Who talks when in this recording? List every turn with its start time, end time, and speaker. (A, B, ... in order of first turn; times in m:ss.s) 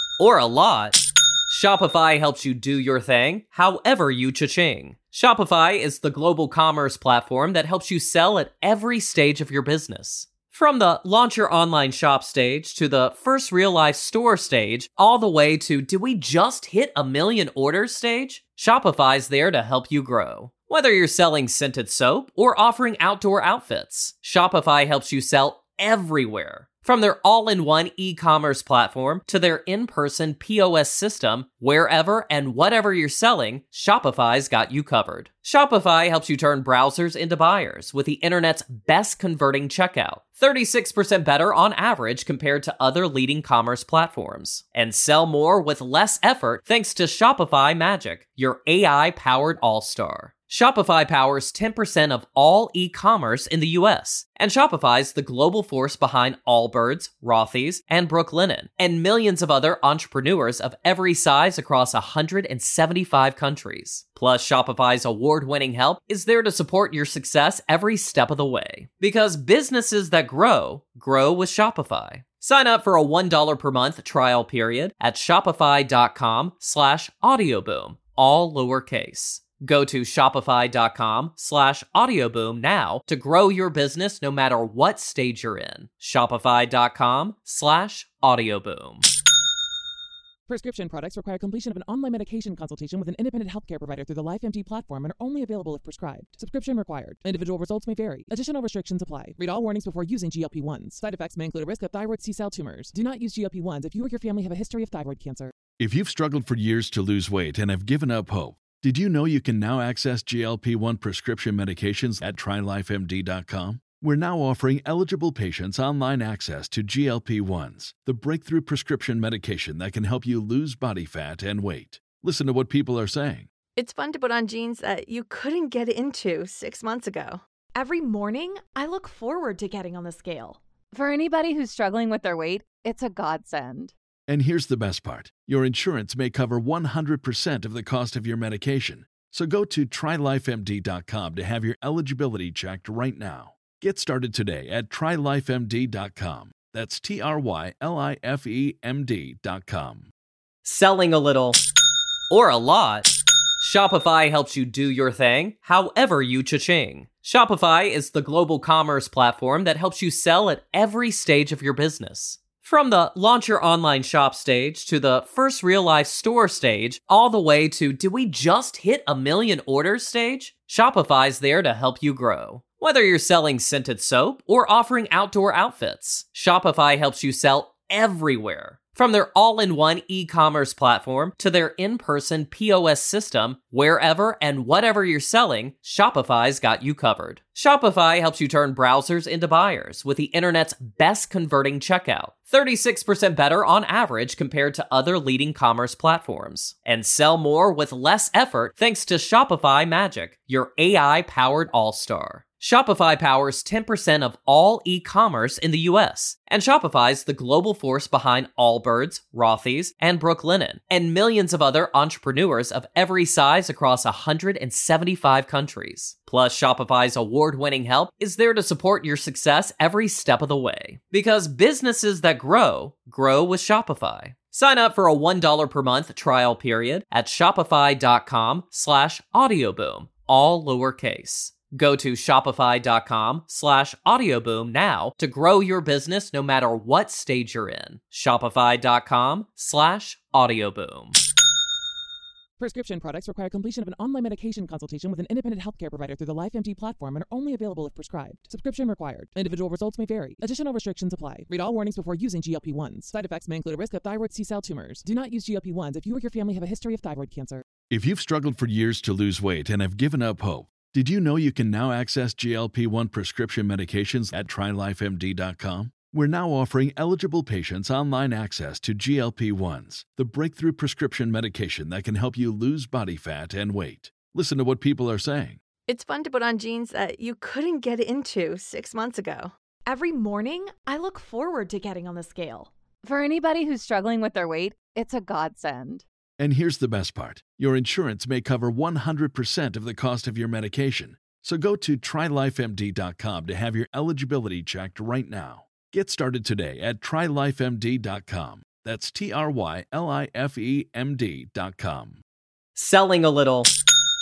0:00.2-1:29.0 A
1:30.5-1:45.5 B
1:45.8-2:03.5 C
2:03.8-2:07.4 D
2:07.7-2:10.6 E
2:10.9-2:13.9 F
2:14.3-2:30.1 C
2:30.6-2:31.6 A
2:32.3-4:01.2 A
4:02.6-4:17.6 B
4:17.9-4:35.6 C
4:35.9-4:39.5 D
4:39.9-4:42.7 E
4:43.0-4:46.0 F
4:46.4-5:02.2 C
5:02.8-5:03.7 A